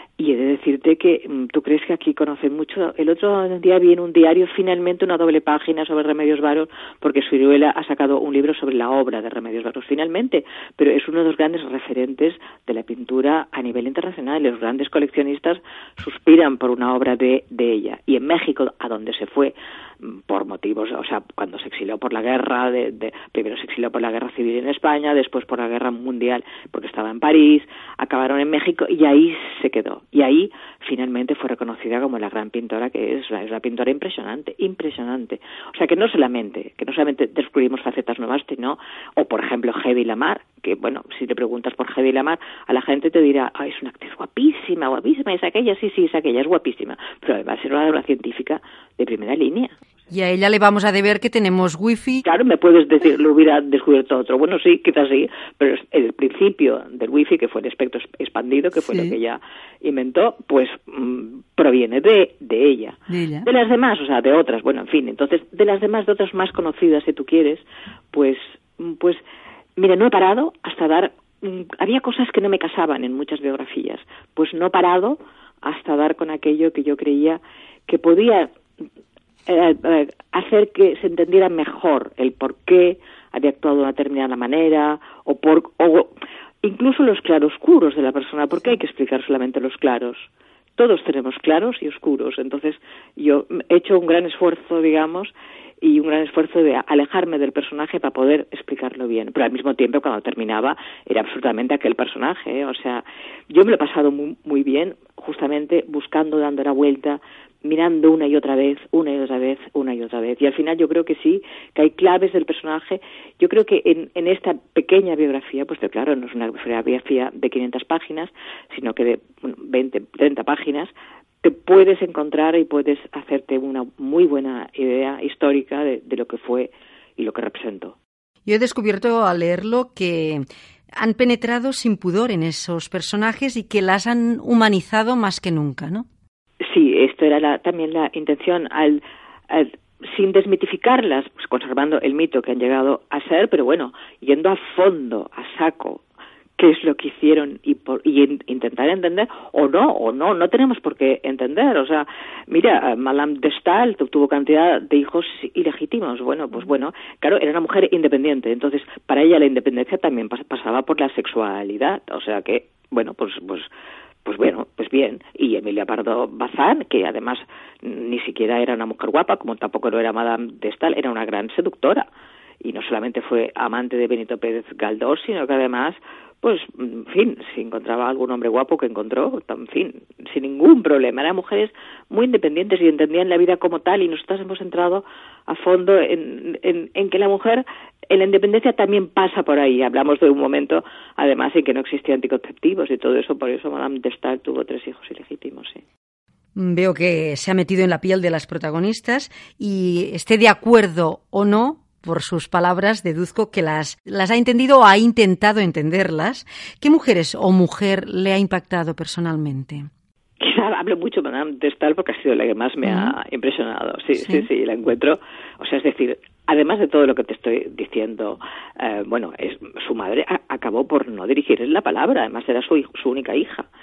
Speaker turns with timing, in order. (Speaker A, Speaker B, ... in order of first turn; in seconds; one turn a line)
Speaker A: 0.2-49.7
Speaker B: 50.1-52.2
Speaker A: 52.2-69.2
Speaker B: 58.8-59.1
Speaker B: 63.1-63.5
Speaker A: 69.8-78.5
Speaker A: 79.5-86.1
Speaker A: 86.6-120.9
Speaker A: 121.4-128.0
Speaker B: 128.4-130.4
Speaker B: 131.0-136.1
Speaker A: 136.6-146.0
Speaker A: 146.6-163.7
Speaker A: 164.2-172.1
Speaker A: 172.6-195.8
Speaker B: 196.6-209.9
Speaker A: 210.4-223.7
Speaker B: 212.8-213.1
Speaker B: 214.2-214.4